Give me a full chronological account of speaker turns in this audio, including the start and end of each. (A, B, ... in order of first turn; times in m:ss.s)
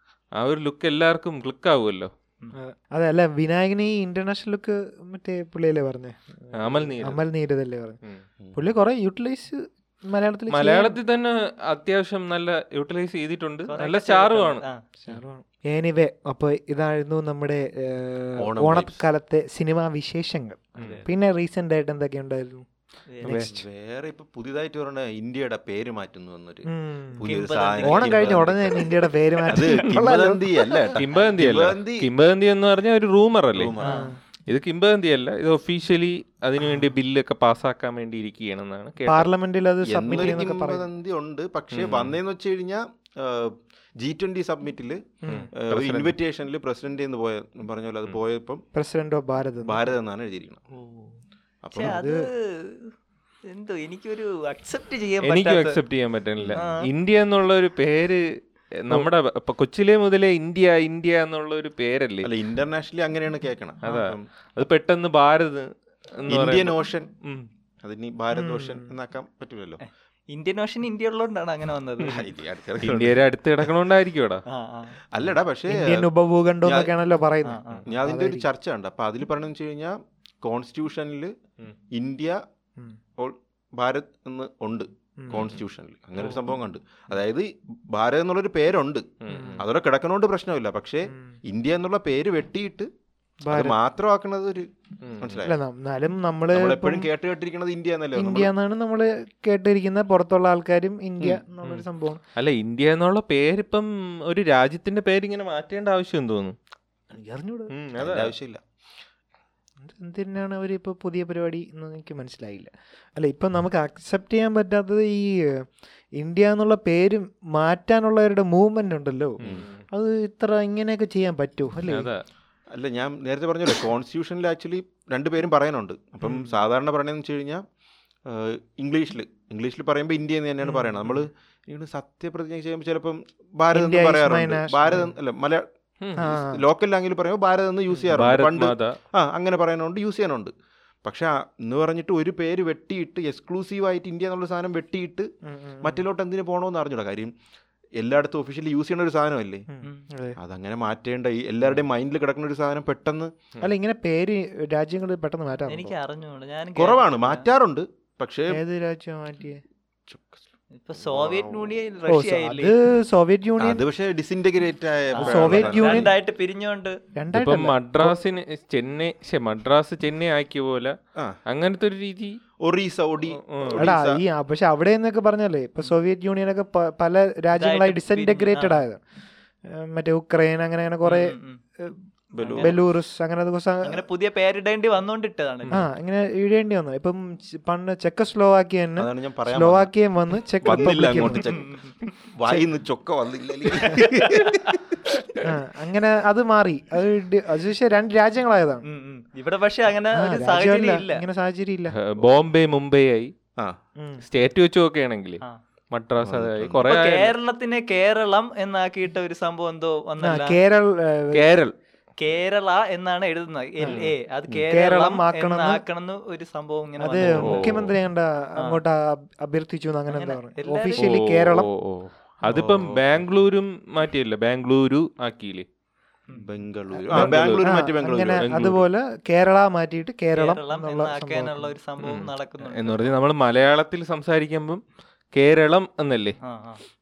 0:00.4-0:02.1 A
0:02.5-0:08.0 B
0:06.5-0:07.2 A
0:08.4-0:08.7 C
0:08.5-0:11.0 B
0:10.5-0:15.1 A
0:13.7-0:14.8 D
0:15.0-0:22.6 B
0:18.4-0:19.0 C
0:20.8-0:21.1 D
0:20.8-0:21.0 A
0:23.1-0:23.4 D
0:23.2-0:23.6 B
0:23.3-0:32.1 C
0:26.6-0:27.2 B
0:27.2-0:28.4 D
0:27.8-0:31.0 B
0:30.9-0:33.7 A
0:33.5-0:34.1 C
0:33.8-0:34.1 D
0:33.8-0:34.2 B
0:34.5-0:39.3 A
0:39.0-0:40.8 B
0:39.8-0:48.6 C
0:41.7-0:42.2 A
0:45.2-0:45.5 B
0:45.3-0:46.2 A
0:48.7-0:50.0 B
0:49.6-0:50.6 C
0:51.6-0:52.0 C
0:51.7-0:52.9 D
0:51.8-0:52.2 B
0:53.5-0:55.8 D
0:55.2-0:58.3 A
0:56.5-0:56.9 D
0:58.8-1:02.3 A
1:02.2-1:04.2 C
1:03.8-1:07.5 A
1:06.3-1:07.1 C
1:07.8-1:09.8 C
1:08.3-1:08.9 B
1:09.8-1:12.2 D
1:12.0-1:13.2 C
1:12.8-1:14.4 A
1:14.5-1:15.0 D
1:15.1-1:16.1 C
1:15.7-1:18.5 B
1:16.6-1:16.9 C
1:17.4-1:17.8 D
1:17.8-1:21.3 C
1:21.9-1:22.4 C
1:23.2-1:32.9 C
1:25.2-1:25.5 B
1:29.2-1:29.6 A
1:29.3-1:29.6 B
1:31.1-1:31.3 B
1:33.4-1:33.8 B
1:33.5-1:34.7 C
1:35.0-1:35.4 A
1:35.2-1:35.6 C
1:35.4-1:37.1 B
1:36.5-1:38.5 C
1:38.1-1:42.2 B
1:42.4-1:46.6 A
1:47.1-1:47.7 B
1:47.7-1:48.3 A
1:48.0-1:48.6 C
1:49.8-2:02.1 B
1:59.4-1:59.8 A
2:01.9-2:02.2 A
2:02.7-2:07.6 C
2:06.2-2:06.5 B
2:08.2-2:15.6 C
2:10.6-2:11.2 B
2:13.7-2:15.1 B
2:16.0-2:16.3 A
2:16.2-2:16.6 B
2:16.2-2:20.5 C
2:18.1-2:19.0 A
2:21.0-2:25.3 C
2:25.4-2:26.0 B
2:25.8-2:27.3 C
2:28.0-2:29.7 C
2:29.7-2:30.4 B
2:30.4-2:33.3 C
2:33.6-2:35.9 B
2:35.7-2:37.5 D
2:36.8-2:38.6 C
2:38.5-2:39.6 B
2:40.1-2:40.4 C
2:40.8-2:42.7 D
2:41.0-2:41.8 C
2:42.1-2:43.8 B
2:43.6-2:46.1 C
2:45.1-2:47.0 D
2:45.2-2:46.1 B
2:47.1-2:48.2 B
2:47.3-2:50.9 A
2:51.5-2:52.4 A
2:52.6-2:54.2 C
2:53.3-2:53.9 A
2:53.7-2:59.0 B
2:57.5-2:58.8 D
2:59.6-3:02.0 B
3:01.0-3:01.6 D
3:02.3-3:02.8 C
3:02.4-3:02.8 D
3:02.6-3:04.0 B
3:03.8-3:05.8 D
3:05.7-3:11.4 B
3:09.0-3:09.9 C
3:10.6-3:11.7 C
3:11.3-3:12.0 D
3:12.3-3:14.8 C
3:14.0-3:14.7 D
3:15.4-3:18.8 B
3:18.8-3:21.2 D
3:20.1-3:21.9 B
3:21.9-3:23.3 A
3:24.0-3:24.2 B
3:24.2-3:27.3 A
3:26.2-3:26.8 C
3:26.8-3:30.6 D
3:30.2-3:31.5 B
3:31.3-3:31.7 A
3:32.2-3:37.7 D
3:33.8-3:34.0 B
3:34.7-3:35.8 B
3:37.0-3:41.7 B
3:37.2-3:37.9 A
3:40.1-3:41.0 D
3:41.0-3:45.6 A
3:42.5-3:43.2 C
3:46.3-3:48.5 C
3:47.0-3:51.7 B
3:47.1-3:47.7 A
3:48.4-3:48.8 A
3:50.3-3:53.2 D
3:52.0-3:54.8 A
3:55.3-3:56.4 A
3:56.4-3:56.8 D